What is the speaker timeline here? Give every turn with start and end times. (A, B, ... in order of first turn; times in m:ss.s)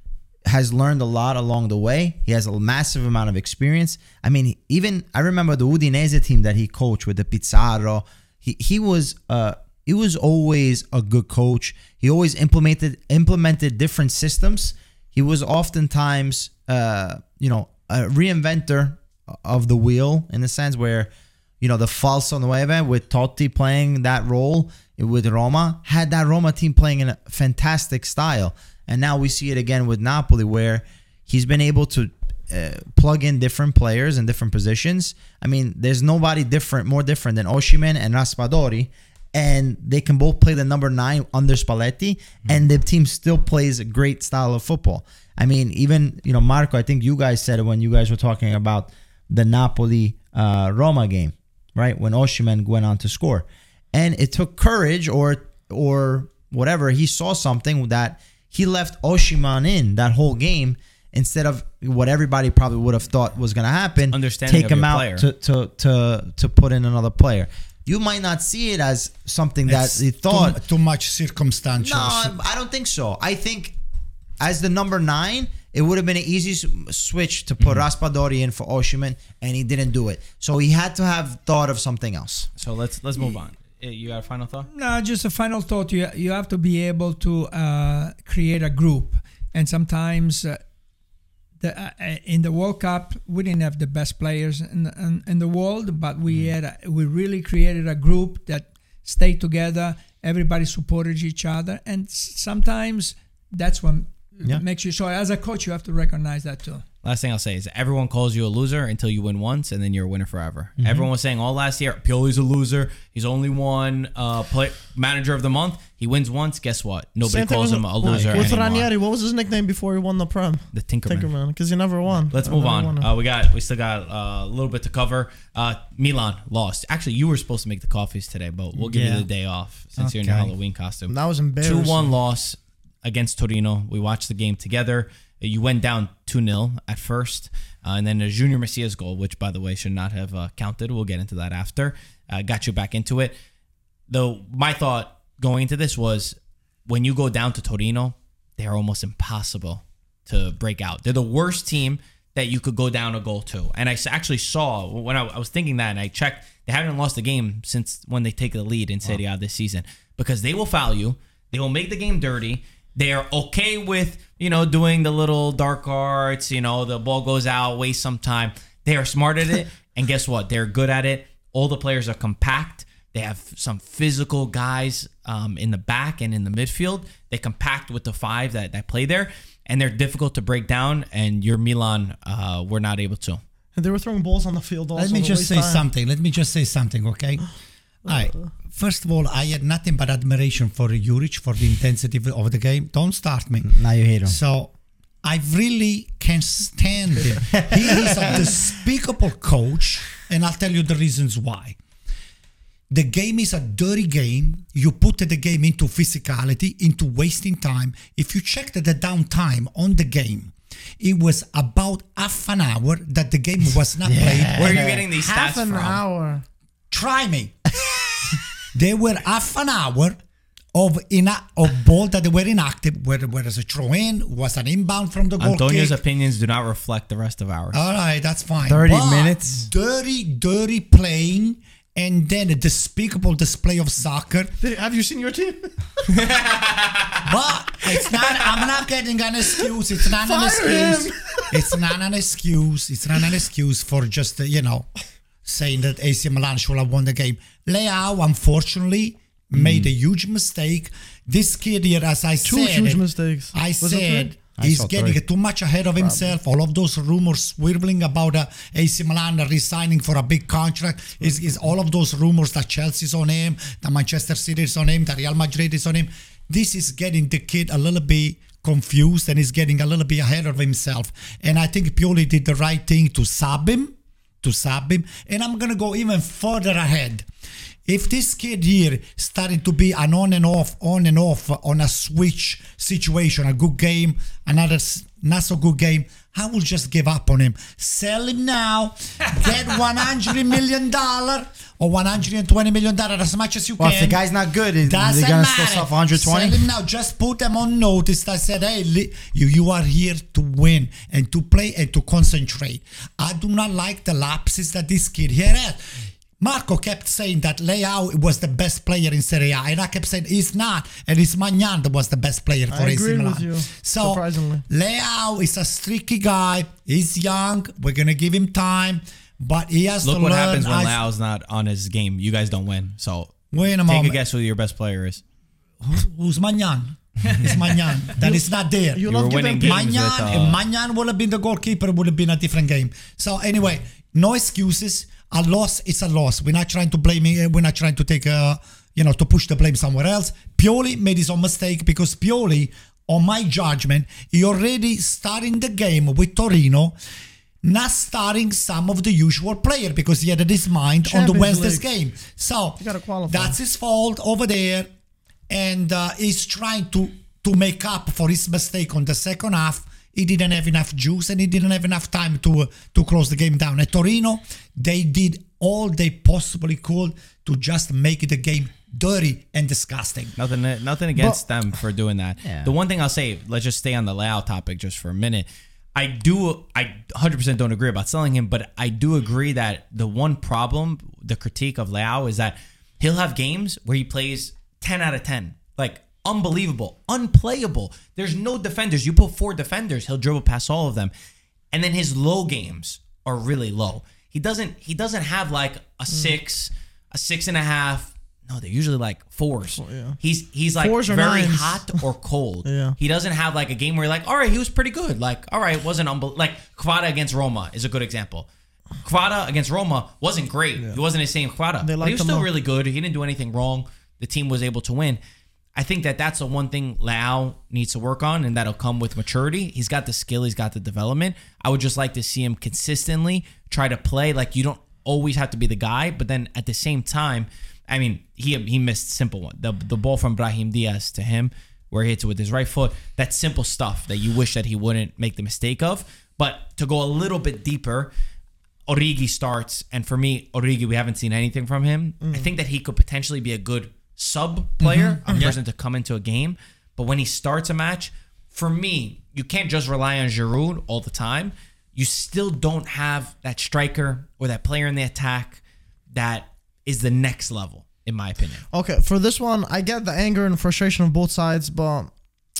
0:00.5-1:10.6 A
1:04.1-1:05.3 B
1:09.7-1:12.4 C
1:11.8-1:13.8 A
1:14.4-1:22.5 A
1:17.6-1:17.9 B
1:22.6-1:24.7 B
1:24.7-1:30.6 D
1:31.6-1:46.8 D
1:47.0-1:58.9 B
1:50.8-1:51.1 A
1:57.2-2:03.1 E
1:58.0-1:58.5 A
2:00.7-2:01.3 B
2:02.3-2:23.4 B
2:08.8-2:09.3 C
2:10.0-2:10.5 C
2:11.1-2:12.1 E
2:24.1-3:03.4 B
3:03.8-3:05.8 E
3:05.0-3:07.5 C
3:08.0-3:14.7 C
3:08.1-3:08.4 E
3:13.6-3:14.4 A
3:15.2-3:21.8 C
3:17.6-3:18.8 A
3:22.9-3:35.8 C
3:34.0-3:35.0 A
3:34.6-3:36.0 B
3:35.2-3:36.4 E
3:36.9-3:37.8 C
3:38.3-3:40.2 C
3:40.7-3:46.0 C
3:45.4-3:47.8 B
3:47.7-3:54.5 C
3:48.7-3:49.7 A
3:54.6-3:56.1 E
3:56.1-3:57.3 B
3:57.2-4:04.9 C
4:00.1-4:01.7 E
4:05.4-4:37.3 C
4:09.6-4:09.9 A
4:12.4-4:14.4 E
4:14.6-4:15.2 A
4:16.0-4:16.3 E
4:37.9-4:54.2 C
4:53.8-4:56.6 A
4:54.8-5:05.8 C
5:06.4-5:21.0 C
5:12.7-5:14.6 E
5:20.0-5:23.3 B
5:23.5-5:24.2 C
5:23.8-5:25.2 B
5:25.8-5:47.0 C
5:28.2-5:30.2 E
5:29.1-5:30.6 B
5:47.6-5:54.9 C
5:51.0-5:51.8 E
5:52.8-5:53.6 E
5:55.5-6:10.3 C
6:10.4-6:31.1 B
6:12.4-6:12.7 A
6:31.7-6:48.5 B
6:39.8-6:40.2 E
6:40.8-6:42.0 E
6:42.6-6:43.0 E
6:49.0-6:55.2 B
6:51.8-6:52.5 E
6:55.8-7:18.1 B
7:18.9-7:35.6 B
7:22.2-7:22.5 E
7:24.8-7:25.5 C
7:25.3-7:25.5 E
7:36.1-7:38.6 B
7:38.7-7:42.1 E